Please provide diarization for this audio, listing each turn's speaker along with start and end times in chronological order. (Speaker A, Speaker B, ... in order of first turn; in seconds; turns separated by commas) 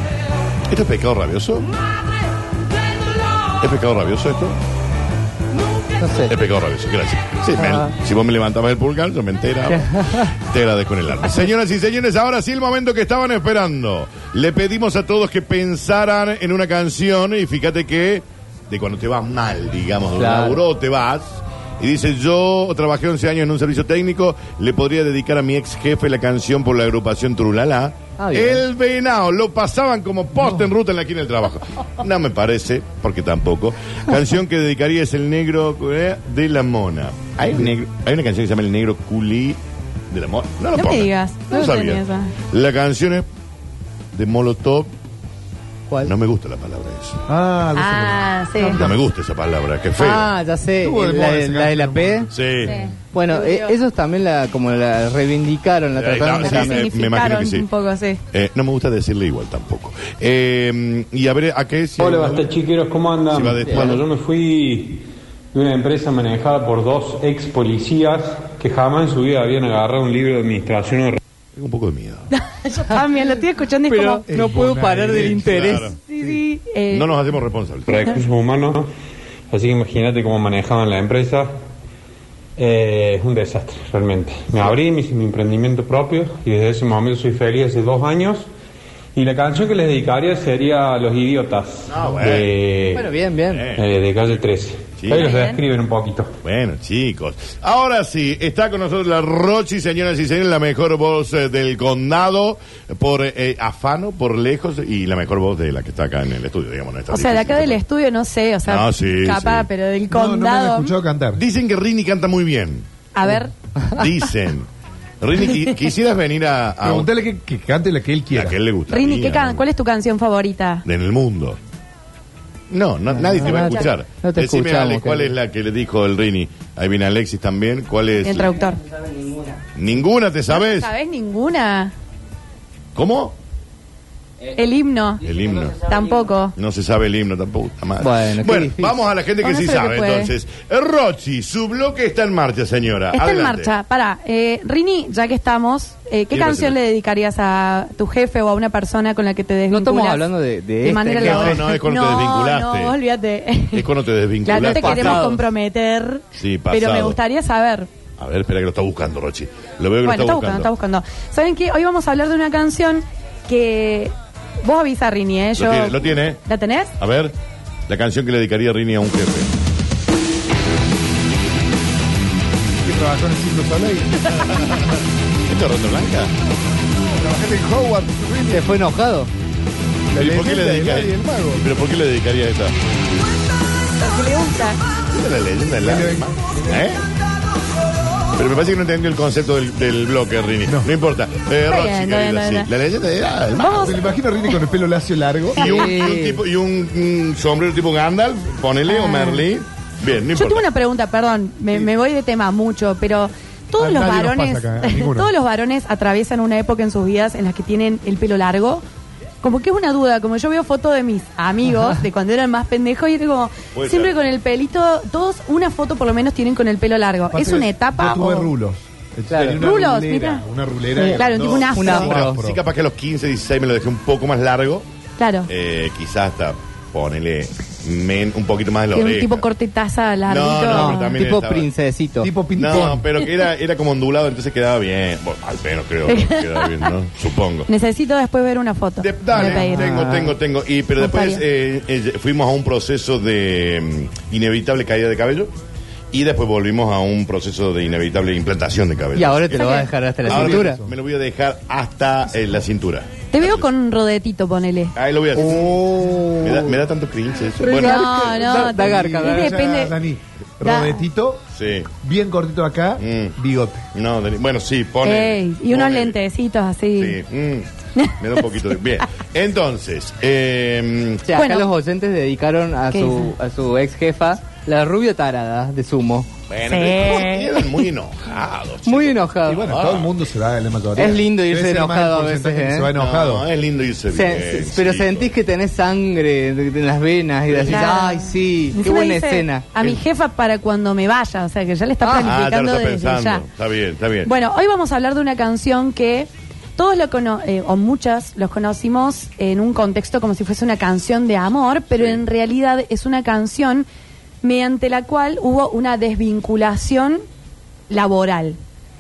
Speaker A: 0.7-1.7, Speaker A: 3.6-4.6, Speaker B: 6.0-6.3, Speaker A: 6.3-39.6, Speaker B: 7.6-7.8, Speaker B: 9.7-10.3, Speaker B: 20.2-20.6, Speaker B: 28.2-28.6, Speaker A: 40.1-43.3, Speaker C: 40.7-42.3, Speaker A: 44.1-44.9, Speaker A: 46.0-47.2, Speaker D: 47.3-49.0, Speaker C: 47.8-48.8, Speaker A: 48.8-50.3, Speaker B: 50.0-52.3, Speaker D: 50.8-52.3, Speaker A: 52.3-52.8, Speaker C: 52.6-53.8, Speaker B: 53.1-56.9, Speaker A: 56.0-57.7, Speaker C: 56.4-58.2, Speaker A: 58.3-62.5, Speaker E: 62.0-71.2, Speaker A: 63.3-64.0, Speaker A: 71.5-72.3, Speaker C: 72.3-74.2, Speaker B: 73.9-75.9, Speaker D: 74.3-76.4, Speaker A: 75.5-76.0, Speaker C: 76.1-77.1, Speaker A: 76.9-78.1, Speaker E: 77.9-78.9, Speaker E: 79.5-81.5, Speaker E: 82.6-88.5, Speaker E: 89.2-93.1, Speaker A: 91.9-92.5, Speaker B: 93.0-93.7, Speaker A: 93.5-93.9, Speaker E: 93.8-96.3, Speaker A: 95.0-95.3, Speaker C: 95.1-95.6, Speaker A: 96.4-107.8, Speaker C: 107.1-110.9, Speaker A: 108.7-109.7, Speaker D: 110.1-111.4, Speaker A: 111.3-112.9, Speaker C: 113.1-113.5, Speaker A: 113.9-114.7, Speaker A: 115.2-117.1, Speaker D: 116.8-118.6, Speaker A: 118.3-119.6, Speaker C: 118.9-120.8, Speaker A: 120.8-121.6, Speaker A: 122.7-128.5, Speaker B: 123.1-125.3, Speaker C: 123.5-123.9, Speaker C: 128.2-128.8, Speaker A: 129.8-130.9, Speaker C: 130.5-131.9, Speaker A: 132.9-133.3, Speaker C: 134.5-135.3, Speaker A: 135.2-135.8, Speaker C: 135.8-136.6, Speaker A: 136.6-143.7, Speaker B: 138.0-139.1, Speaker C: 139.4-140.3, Speaker C: 143.1-150.3, Speaker A: 146.3-146.8, Speaker B: 149.7-151.7, Speaker C: 150.8-153.9, Speaker A: 151.2-152.9, Speaker A: 153.7-155.2, Speaker C: 154.4-157.9, Speaker B: 154.5-155.4, Speaker A: 156.4-157.2, Speaker A: 158.2-160.7, Speaker C: 160.0-166.9, Speaker A: 165.6-166.4, Speaker A: 167.0-167.3, Speaker A: 167.9-169.5, Speaker D: 172.8-174.3, Speaker A: 174.6-174.8, Speaker A: 175.5-176.3, Speaker D: 177.2-178.7, Speaker B: 178.5-179.3, Speaker D: 180.1-181.7, Speaker A: 180.1-182.8, Speaker C: 184.0-184.8, Speaker A: 185.1-187.0, Speaker D: 185.8-187.0, Speaker A: 188.3-194.1, Speaker C: 191.7-192.7, Speaker C: 193.6-194.0, Speaker D: 193.7-195.8, Speaker A: 195.6-200.7, Speaker B: 195.6-196.4, Speaker C: 198.9-199.4, Speaker C: 200.3-208.8, Speaker D: 203.8-205.3, Speaker C: 209.4-218.5, Speaker A: 213.7-214.2, Speaker D: 217.3-222.6, Speaker B: 219.3-219.6, Speaker C: 219.6-220.4, Speaker C: 221.0-222.2, Speaker B: 221.8-222.4, Speaker A: 222.2-224.9, Speaker C: 225.2-225.5, Speaker A: 225.5-229.4, Speaker C: 228.9-231.2, Speaker A: 230.3-231.7, Speaker B: 230.7-232.3, Speaker D: 232.2-233.1, Speaker A: 232.6-237.7, Speaker C: 236.1-236.9, Speaker C: 237.7-239.9, Speaker A: 239.0-245.5, Speaker B: 239.3-240.3, Speaker C: 241.0-241.4, Speaker A: 246.1-253.7, Speaker B: 249.2-250.8, Speaker C: 249.5-249.9, Speaker D: 250.2-251.0, Speaker C: 253.3-254.9, Speaker A: 254.9-255.8, Speaker D: 255.4-256.9, Speaker A: 256.4-258.6, Speaker B: 257.6-259.6, Speaker C: 257.7-260.0, Speaker D: 258.7-261.4, Speaker C: 260.6-261.0, Speaker A: 261.6-261.9, Speaker D: 262.0-263.9, Speaker A: 263.0-263.4, Speaker A: 263.9-266.2, Speaker C: 265.0-267.2, Speaker A: 267.0-271.2, Speaker B: 271.3-276.3, Speaker C: 271.4-271.7, Speaker C: 272.9-273.3, Speaker A: 276.5-280.1, Speaker C: 276.7-277.9, Speaker B: 278.9-279.7, Speaker D: 279.4-283.5, Speaker B: 281.0-282.9, Speaker A: 282.9-285.3, Speaker B: 284.1-289.6, Speaker A: 287.5-287.8, Speaker C: 287.7-293.5, Speaker A: 292.1-294.3, Speaker C: 294.2-303.9, Speaker C: 304.4-307.2, Speaker C: 307.9-308.6